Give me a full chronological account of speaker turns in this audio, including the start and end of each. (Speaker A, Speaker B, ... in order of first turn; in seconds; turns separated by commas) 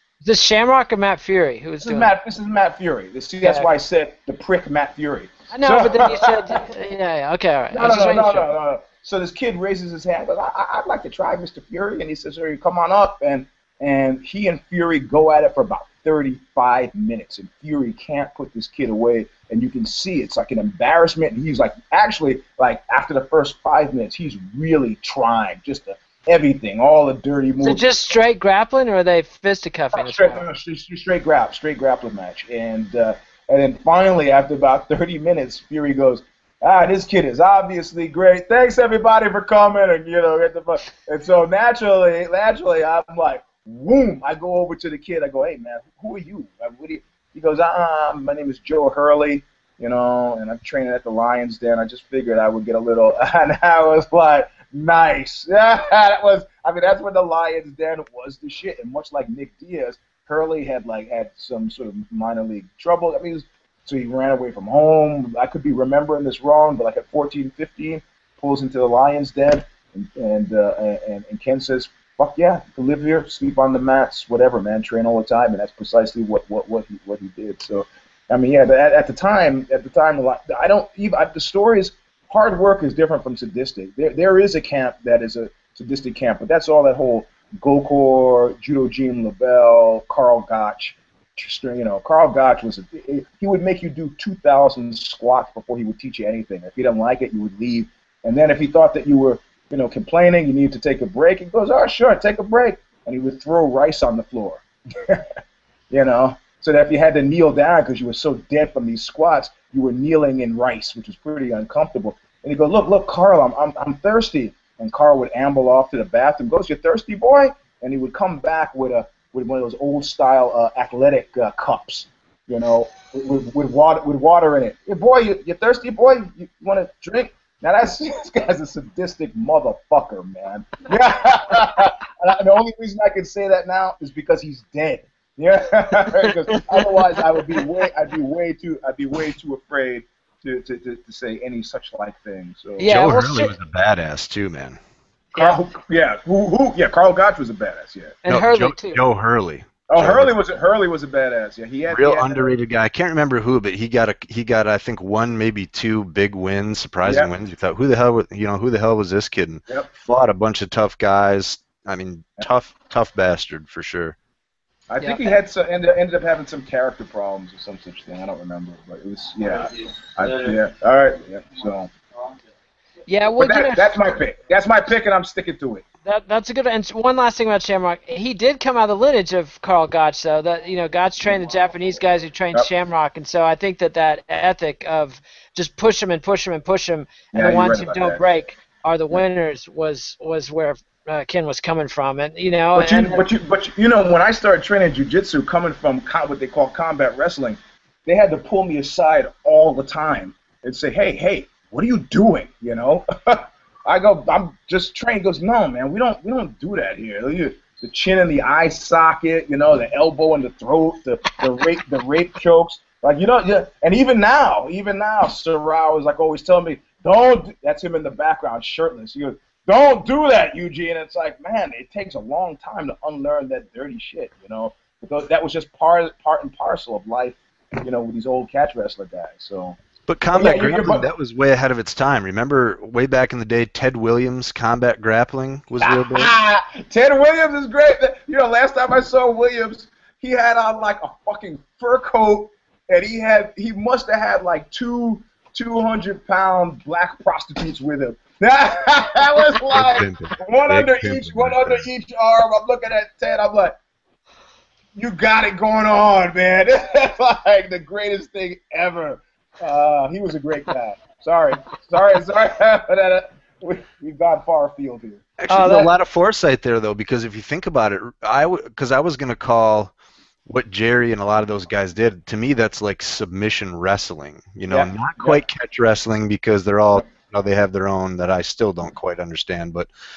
Speaker A: 0.2-2.1, Speaker B: 1.8-6.6, Speaker A: 3.4-3.7, Speaker A: 5.5-8.5, Speaker B: 7.7-27.9, Speaker A: 27.6-30.5, Speaker B: 29.9-105.3, Speaker B: 105.9-142.9, Speaker A: 142.8-143.5, Speaker C: 142.8-144.8, Speaker A: 145.3-145.6, Speaker B: 145.3-148.2, Speaker A: 148.2-149.0, Speaker C: 148.3-150.3, Speaker B: 149.9-152.6, Speaker C: 151.9-164.2, Speaker B: 164.9-171.9, Speaker A: 165.0-165.3, Speaker A: 173.1-174.0, Speaker B: 173.4-175.8, Speaker A: 176.1-193.2, Speaker B: 187.3-188.3, Speaker B: 192.8-229.8, Speaker C: 230.1-236.3, Speaker B: 230.3-231.1, Speaker B: 235.8-253.8, Speaker C: 249.7-251.9, Speaker B: 254.9-265.9, Speaker C: 265.4-269.9, Speaker A: 265.5-265.9, Speaker C: 270.5-279.9, Speaker B: 274.7-275.4